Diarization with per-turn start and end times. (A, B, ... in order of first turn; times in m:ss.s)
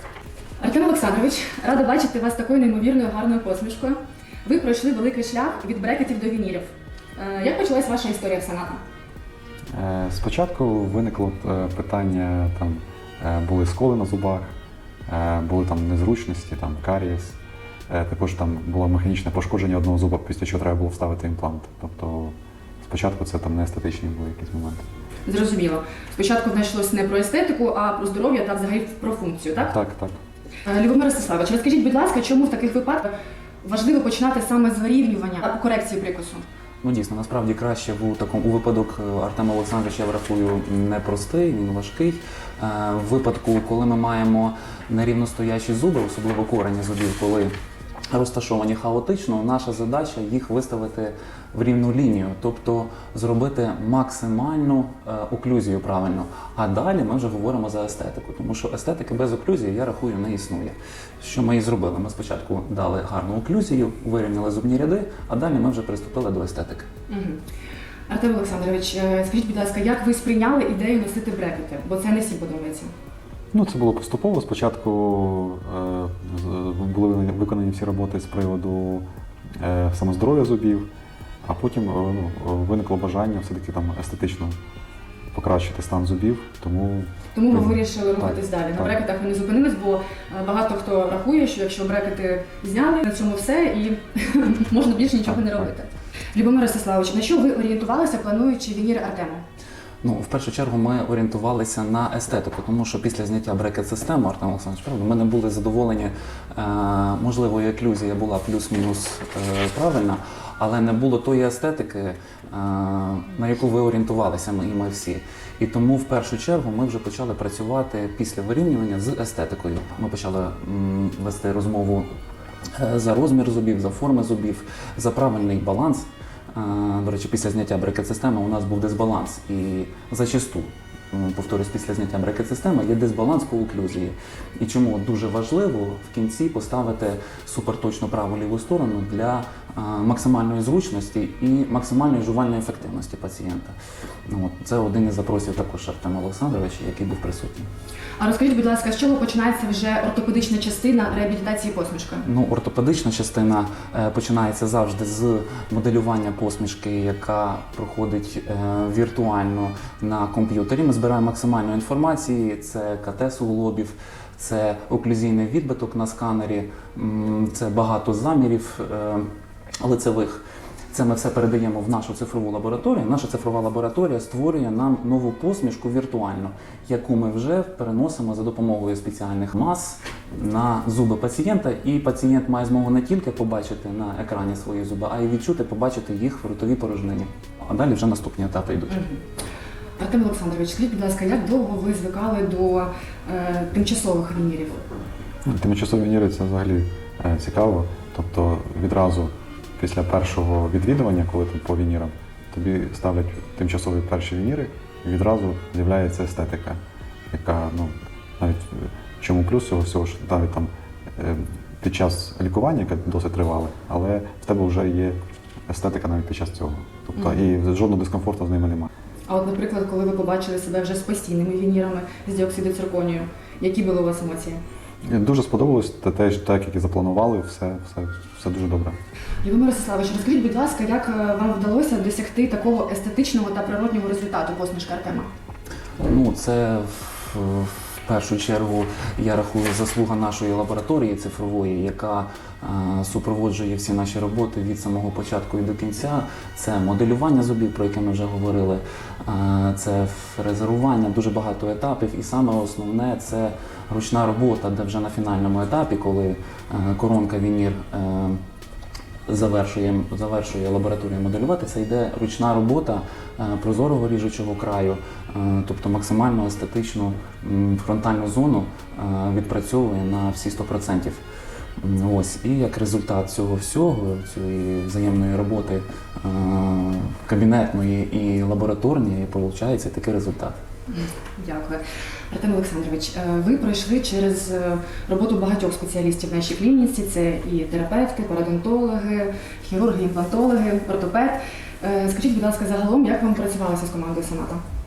0:00.6-0:08.8 A
0:09.7-0:14.5 B
0:15.1-0:17.4 B
0:17.9-0:24.8 B
0:25.2-0:29.7 A
0:29.6-0:30.2 B
0:30.6-0:36.4 A
0:36.8-0:47.5 C
0:48.1-1:06.9 C
1:07.1-1:07.4 A
1:08.1-1:12.9 A
1:13.5-1:19.0 B
1:19.6-1:20.9 B
1:21.4-1:24.5 B
1:25.3-1:28.9 B
1:27.3-1:39.4 A
1:40.0-2:02.1 C
2:02.7-2:23.7 C
2:24.3-2:27.7 C
2:28.2-2:32.2 A
2:32.2-2:49.2 C
2:49.8-3:09.0 C
3:08.9-3:09.2 A
3:10.0-3:14.8 A
3:15.4-3:26.8 B
3:27.3-3:35.2 B
3:35.7-3:38.9 B
3:39.3-3:44.6 A
3:45.1-3:49.0 B
3:49.4-3:55.3 A
3:56.0-4:18.4 C
4:19.3-4:31.2 C
4:31.8-4:40.6 C
4:40.9-4:54.6 A